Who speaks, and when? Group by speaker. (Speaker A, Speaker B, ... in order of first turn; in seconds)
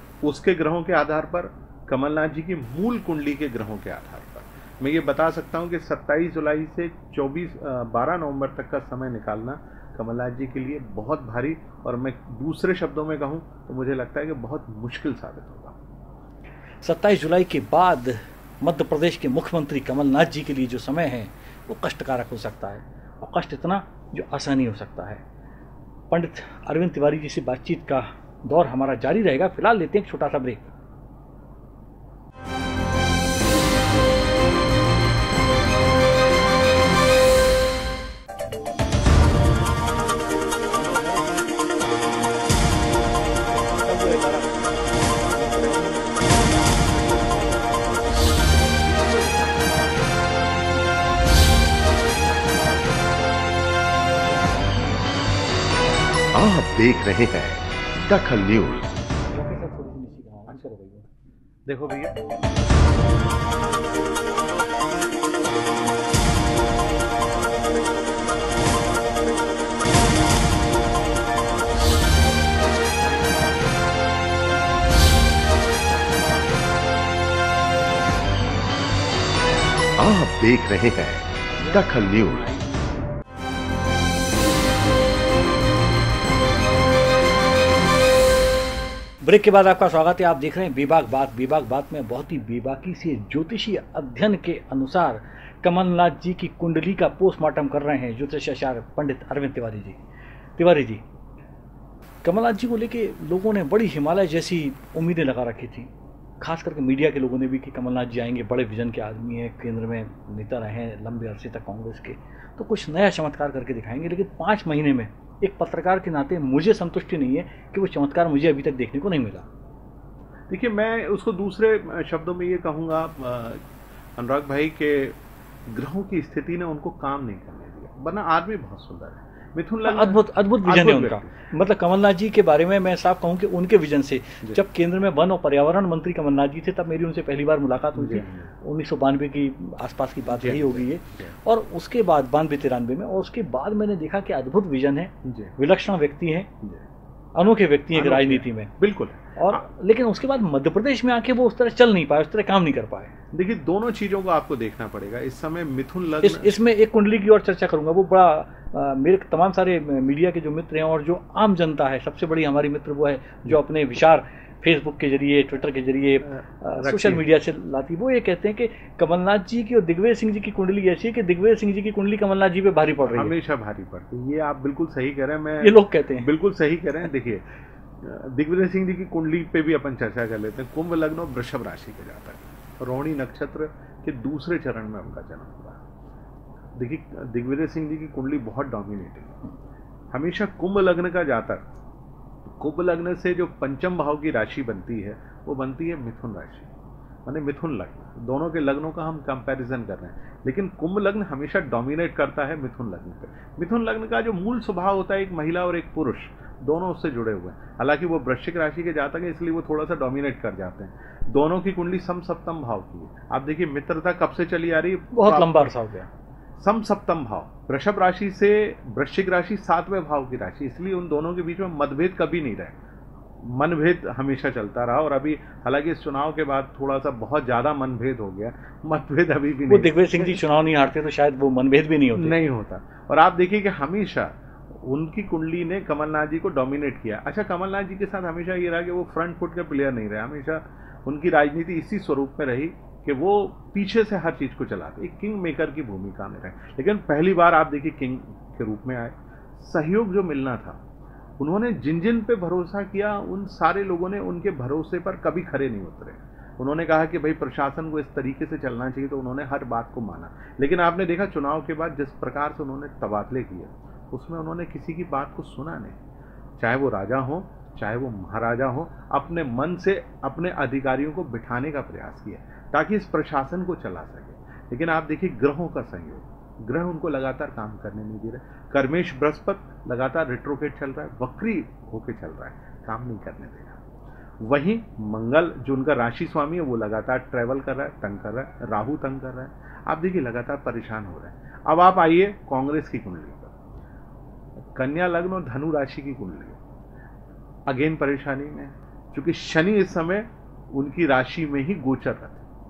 Speaker A: 0.2-15.7, 61.6-62.1, 120.5-123.6, 124.2-131.4, 137.9-138.5, 140.3-141.3, 145.2-145.5, 147.9-149.7, 153.3-156.5, 166.3-167.2, 173.0-185.8, 186.7-189.5, 190.1-191.7, 192.5-196.7, 197.2-215.5, 216.6-222.8, 223.4-230.4, 232.1-250.8, 251.4-266.0, 266.6-283.8, 284.4-293.6, 294.6-296.6, 297.7-302.4
Speaker B: 16.8-25.2, 26.1-30.7, 40.7-41.6, 43.3-44.8, 45.3-49.6, 50.2-55.3, 59.3-61.1, 72.7-73.6, 74.4-75.0, 77.7-78.2, 81.6-82.8, 89.2-100.0, 100.6-101.0, 102.2-119.5, 129.8-146.5, 147.3-148.7, 149.3-153.1, 156.2-173.3, 175.6-176.3, 215.1-216.1, 229.7-232.3
Speaker C: 56.3-59.0, 80.0-82.5